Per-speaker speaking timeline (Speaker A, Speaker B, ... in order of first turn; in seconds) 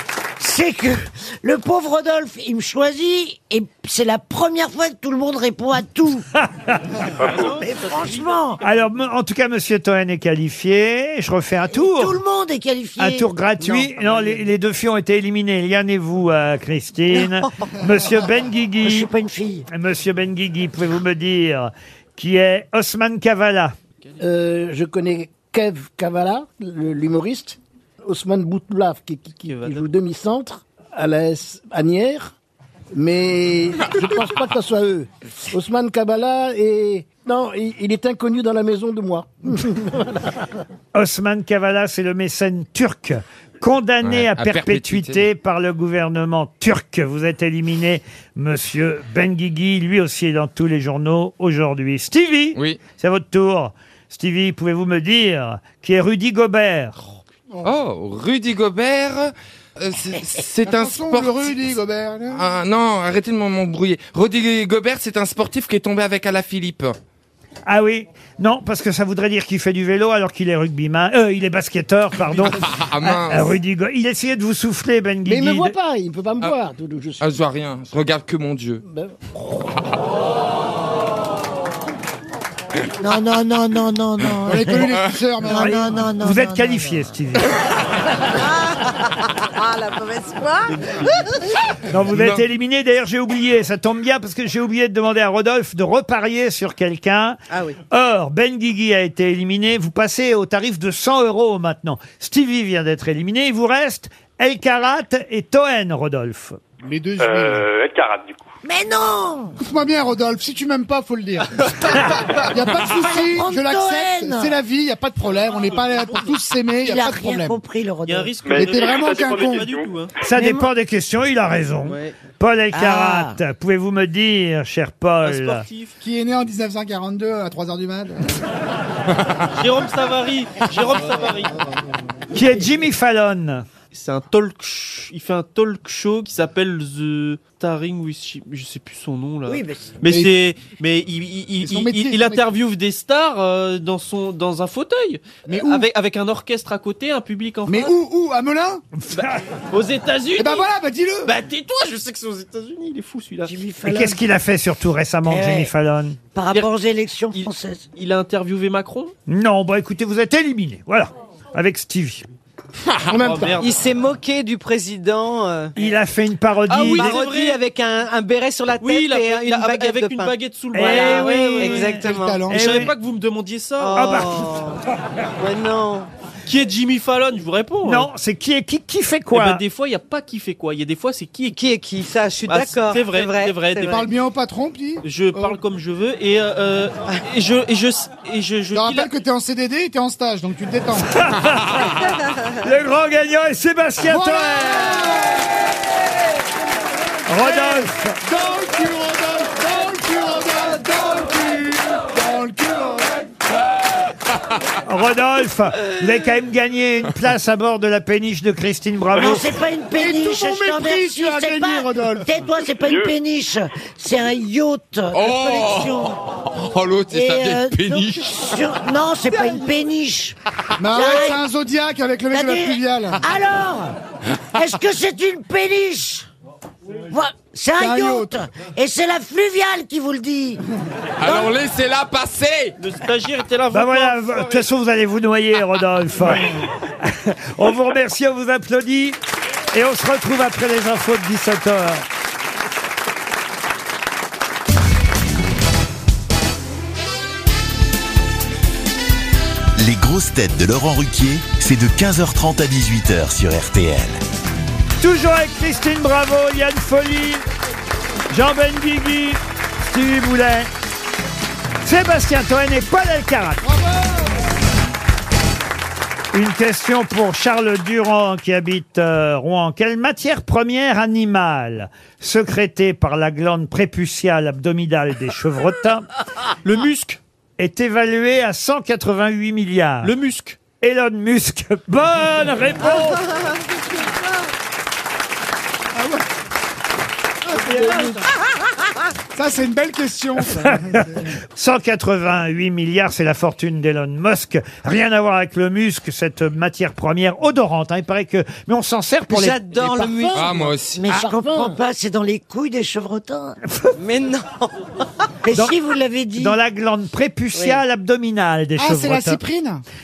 Speaker A: 0.4-6.2, 7.5-8.6, 11.7-13.8, 18.8-19.7, 83.0-87.1, 108.6-109.6, 112.9-114.5, 116.8-118.3, 120.3-120.7, 122.7-123.4, 139.5-139.9, 153.4-154.2, 155.2-155.7, 156.3-157.8, 209.1-216.2, 217.1-220.3, 220.9-221.4, 222.3-223.9, 224.5-226.3, 227.1-230.6, 300.9-303.6, 305.4-306.5
Speaker B: 6.3-6.8, 8.6-12.2, 13.0-19.1, 19.7-23.8, 40.9-57.0, 67.7-75.7, 85.5-87.5, 91.9-97.4, 97.9-106.6, 120.2-125.7, 132.3-133.7, 149.0-149.4, 153.8-156.2, 159.3-162.2, 165.8-167.2, 170.7-172.9, 173.9-174.5, 177.8-179.6, 191.1-195.1, 197.3-198.2, 204.8-209.5, 233.7-239.2, 239.7-242.0, 255.0-257.4, 258.3-260.7, 261.8-263.7, 266.3-276.1, 277.6-280.1, 280.8-283.4, 290.6-300.1, 306.4-309.4
Speaker C: 7.2-7.6, 107.2-108.5, 118.4-119.9, 212.8-213.2
Speaker D: 7.2-8.7, 29.4-29.9, 115.5-116.3, 118.0-120.1, 121.8-122.1, 125.2-125.9, 129.5-131.7, 133.9-147.9, 149.1-150.7, 151.2-153.5, 157.3-159.1, 163.1-163.8, 166.7-167.6, 168.8-174.1, 176.4-178.1, 179.3-181.6, 182.5-184.1, 185.0-189.1, 232.8-234.7, 276.6-277.2, 280.0-280.6
Speaker E: 17.1-17.6, 88.2-91.4, 97.5-97.8, 163.6-165.7, 166.8-172.5, 173.8-174.8, 175.4-176.1, 181.5-184.0, 299.3-300.7, 304.0-304.7, 307.5-307.8
Speaker F: 24.2-32.3, 32.9-40.5, 75.2-77.4, 78.8-79.2, 163.1-163.6, 287.6-288.2, 299.9-300.5, 301.1-301.8
Speaker G: 44.0-45.3, 52.5-52.8, 57.6-61.6, 62.3-67.0, 72.5-73.6, 77.2-78.8, 92.1-92.4, 215.1-218.5, 231.2-232.8, 300.3-301.1
Speaker H: 60.6-62.5, 84.4-86.0, 106.8-107.7, 109.6-117.6, 118.5-119.7, 126.0-128.4, 140.1-140.3, 141.6-142.4, 145.4-145.9, 147.7-148.8, 150.3-151.3, 172.0-172.8, 183.9-185.6, 188.7-191.1, 194.1-195.5, 197.4-203.3, 209.9-212.3, 220.8-223.2, 227.8-228.3, 263.6-264.4, 285.9-286.2, 287.6-287.9, 289.3-291.3, 308.8-309.8
Speaker I: 249.8-254.2